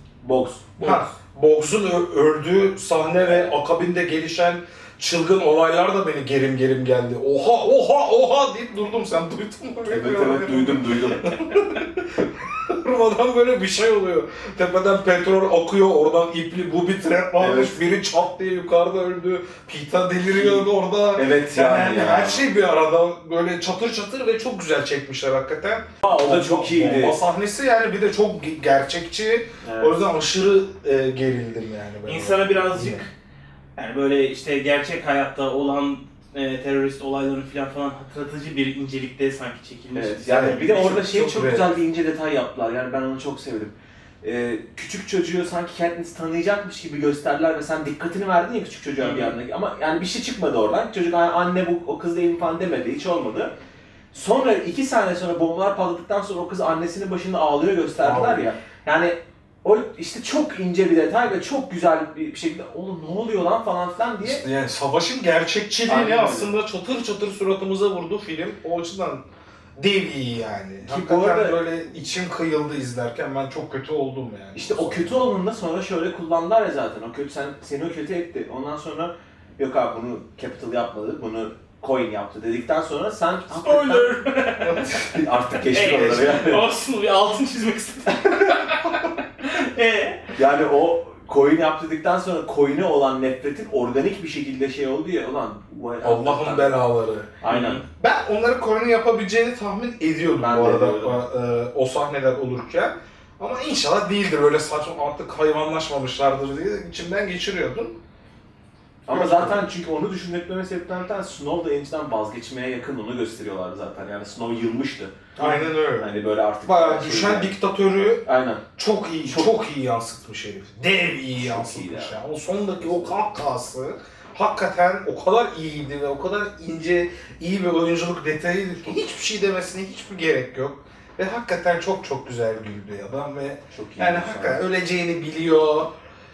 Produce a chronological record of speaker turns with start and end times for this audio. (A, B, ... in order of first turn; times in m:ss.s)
0:00.2-0:01.1 A
0:00.8-0:33.0 B
0:03.2-0:03.5 A
0:09.9-0:11.5 A
0:17.4-0:17.8 A
0:20.3-0:22.5 A
0:26.0-0:27.2 A
0:29.6-0:30.0 A
0:32.0-0:33.1 C
0:33.8-0:40.9 C
0:39.9-0:53.5 A
0:40.3-0:41.7 B
0:49.0-0:49.4 C
0:54.1-1:04.4 A
0:58.0-0:58.5 B
1:04.2-1:09.2 B
1:05.9-1:06.5 A
1:09.8-1:15.3 B
1:10.8-1:11.6 A
1:14.5-1:24.1 A
1:23.5-1:24.9 C
1:24.6-1:25.0 B
1:24.8-1:26.6 A
1:25.7-1:30.2 C
1:30.4-1:36.7 A
1:36.0-1:37.3 B
1:37.4-1:37.8 A
1:37.5-1:37.8 C
1:38.0-1:48.0 B
1:40.4-1:41.2 A
1:49.1-1:57.5 A
1:49.1-1:49.6 B
1:55.4-1:56.1 B
1:56.6-1:58.2 B
1:58.2-1:58.6 A
1:58.8-2:15.9 B
1:59.2-1:59.5 A
2:01.3-2:02.2 A
2:02.8-2:03.2 A
2:13.7-2:14.6 A